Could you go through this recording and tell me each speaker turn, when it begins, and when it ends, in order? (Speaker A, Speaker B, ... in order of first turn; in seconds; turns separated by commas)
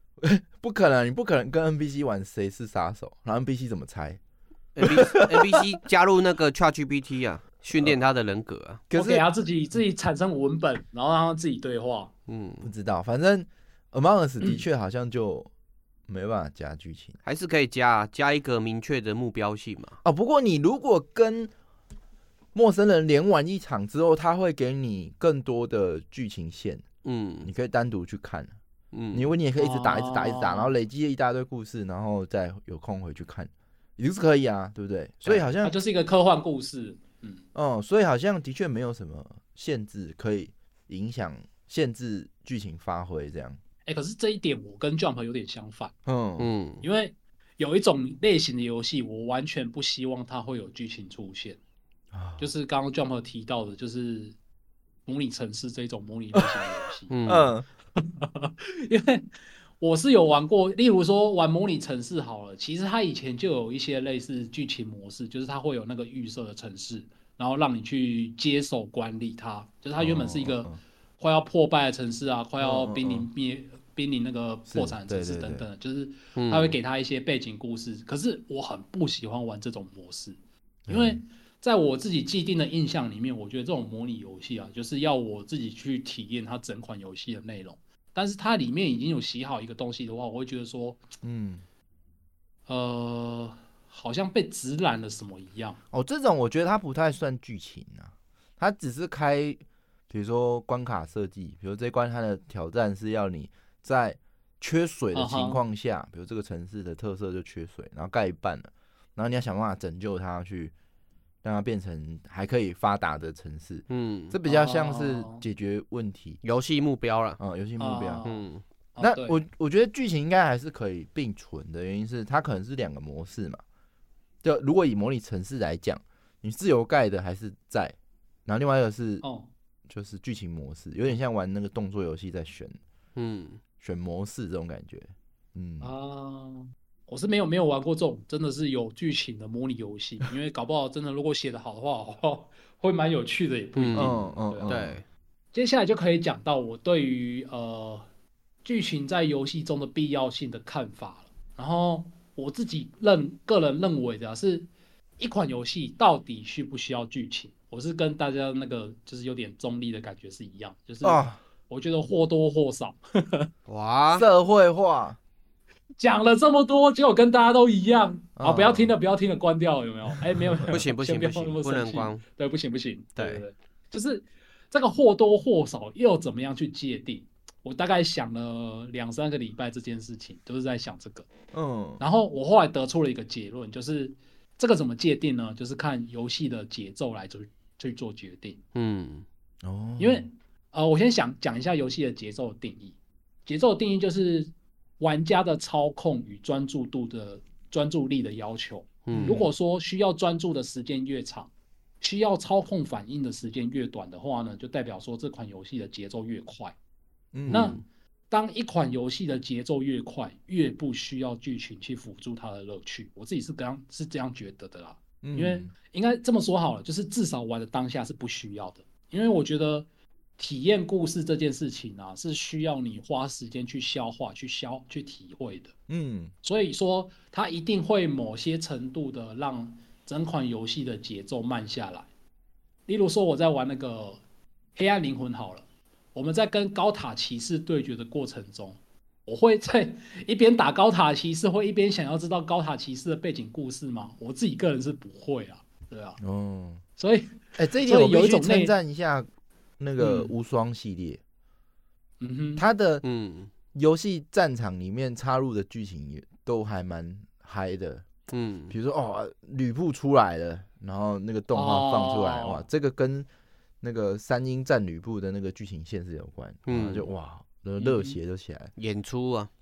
Speaker A: 0.2-4.2, Speaker B: 4.8-8.8, Speaker A: 4.8-5.6, Speaker A: 8.9-9.2, Speaker C: 8.9-12.1, Speaker B: 12.3-12.7, Speaker A: 12.6-15.5, Speaker A: 16.1-17.2, Speaker B: 17.2-20.0, Speaker A: 20.0-21.5, Speaker A: 22.5-26.8, Speaker B: 27.0-27.5, Speaker A: 27.4-28.5, Speaker B: 28.9-29.3, Speaker A: 29.1-35.7, Speaker C: 29.6-30.7, Speaker C: 35.5-37.4, Speaker A: 37.5-43.6, Speaker C: 43.9-45.9, Speaker A: 46.0-46.5, Speaker B: 46.4-46.8, Speaker C: 46.8-51.6, Speaker A: 52.1-52.5, Speaker C: 52.4-54.4, Speaker C: 55.0-57.2, Speaker B: 57.1-57.5, Speaker A: 57.2-57.7, Speaker C: 58.0-59.3, Speaker C: 59.8-80.4, Speaker A: 70.0-70.8, Speaker A: 72.6-73.3, Speaker A: 74.7-75.6, Speaker B: 76.3-76.8, Speaker A: 80.9-81.2, Speaker C: 80.9-91.0, Speaker A: 91.2-91.6, Speaker C: 92.7-95.8, Speaker A: 95.9-110.7, Speaker C: 105.1-105.6, Speaker A: 111.4-116.4, Speaker B: 113.9-114.3, Speaker C: 114.5-115.4, Speaker B: 116.4-117.4, Speaker A: 117.4-118.2, Speaker C: 117.8-118.4, Speaker B: 118.2-118.6, Speaker C: 119.0-119.4, Speaker A: 119.0-123.6, Speaker A: 124.4-127.9, Speaker A: 128.4-129.2, Speaker C: 129.2-129.5, Speaker A: 129.9-132.8, Speaker B: 133.2-133.6, Speaker A: 133.8-135.9, Speaker C: 135.8-144.7, Speaker B: 143.8-144.2, Speaker A: 143.9-145.0, Speaker B: 144.7-145.0, Speaker C: 145.5-148.1, Speaker C: 148.6-163.5, Speaker A: 161.0-161.4, Speaker B: 163.7-164.3, Speaker A: 164.1-165.2, Speaker C: 166.0-181.3, Speaker A: 168.4-168.9, Speaker A: 170.1-170.7, Speaker B: 170.7-172.2, Speaker B: 173.2-173.4, Speaker A: 181.5-182.0, Speaker C: 182.0-188.6, Speaker B: 188.7-189.2, Speaker A: 189.6-190.3, Speaker C: 190.0-201.5, Speaker B: 199.1-199.4, Speaker A: 199.1-199.5, Speaker C: 202.0-206.7, Speaker A: 207.3-207.8, Speaker B: 207.5-207.8, Speaker C: 207.5-219.9, Speaker A: 215.2-215.7, Speaker C: 220.4-225.7, Speaker A: 225.9-226.3, Speaker C: 226.4-232.1, Speaker C: 232.9-234.2, Speaker C: 234.8-246.2, Speaker A: 246.2-246.8, Speaker C: 247.0-248.7, Speaker A: 247.6-249.3, Speaker A: 249.8-251.2, Speaker C: 250.0-250.3, Speaker C: 252.2-252.6, Speaker A: 252.6-253.0, Speaker B: 253.0-253.5, Speaker A: 253.7-258.1, Speaker B: 258.3-258.7, Speaker A: 258.7-263.3, Speaker C: 261.5-262.6, Speaker A: 263.8-268.7, Speaker B: 266.7-267.1, Speaker C: 267.8-268.2, Speaker B: 268.8-269.5